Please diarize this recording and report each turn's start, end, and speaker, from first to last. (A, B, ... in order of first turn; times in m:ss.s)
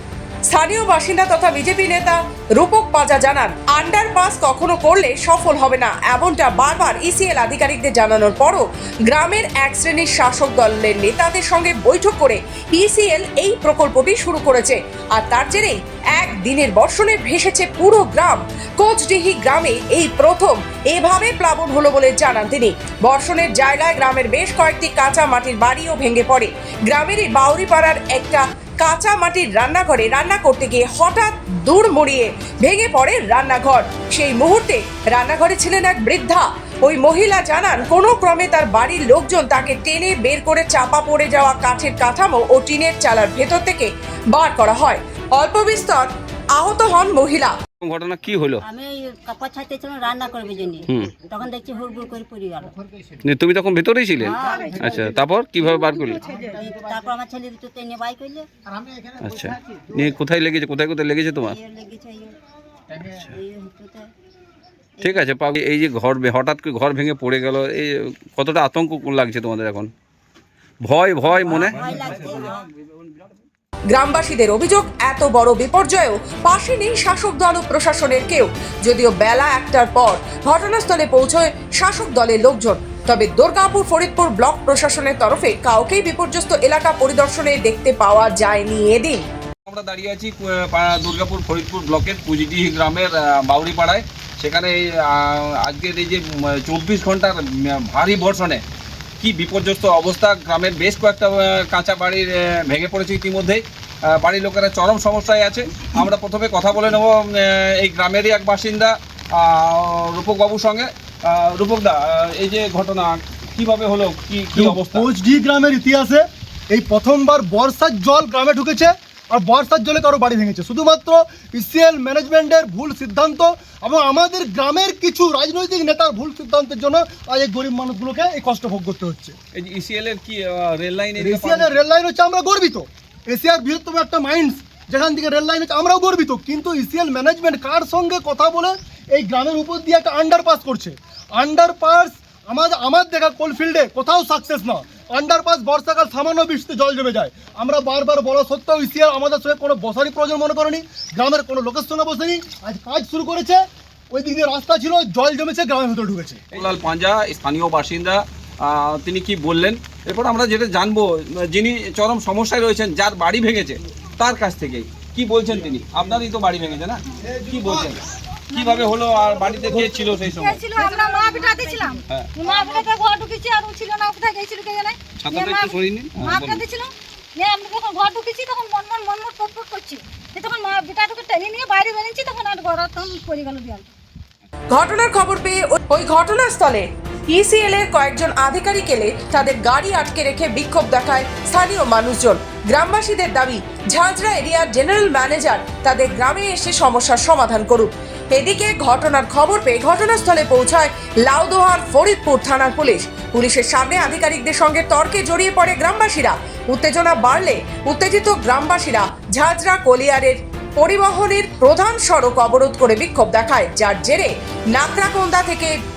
0:00.5-0:47.6 A
0:47.8-0:48.6 B
0:48.6-0:52.8 C
0:50.9-0:51.1 B
0:53.2-0:56.2 B
0:54.2-0:55.1 C
0:55.8-0:56.6 D
0:56.5-0:58.5 C
0:59.2-1:01.6 B
1:01.3-1:02.4 C
1:03.0-1:04.1 C
1:05.0-1:05.3 C
1:05.0-1:09.9 B
1:10.8-1:11.9 B
1:11.6-1:12.6 C
1:13.9-1:29.2 A
1:29.7-1:38.6 B
1:39.2-1:55.1 B
1:54.5-2:09.4 E
2:09.5-2:11.8 B
2:11.2-2:36.4 E
2:36.5-2:50.7 B
2:48.6-2:48.9 D
2:50.3-3:03.9 D
2:55.2-2:56.6 B
3:04.7-3:35.7 A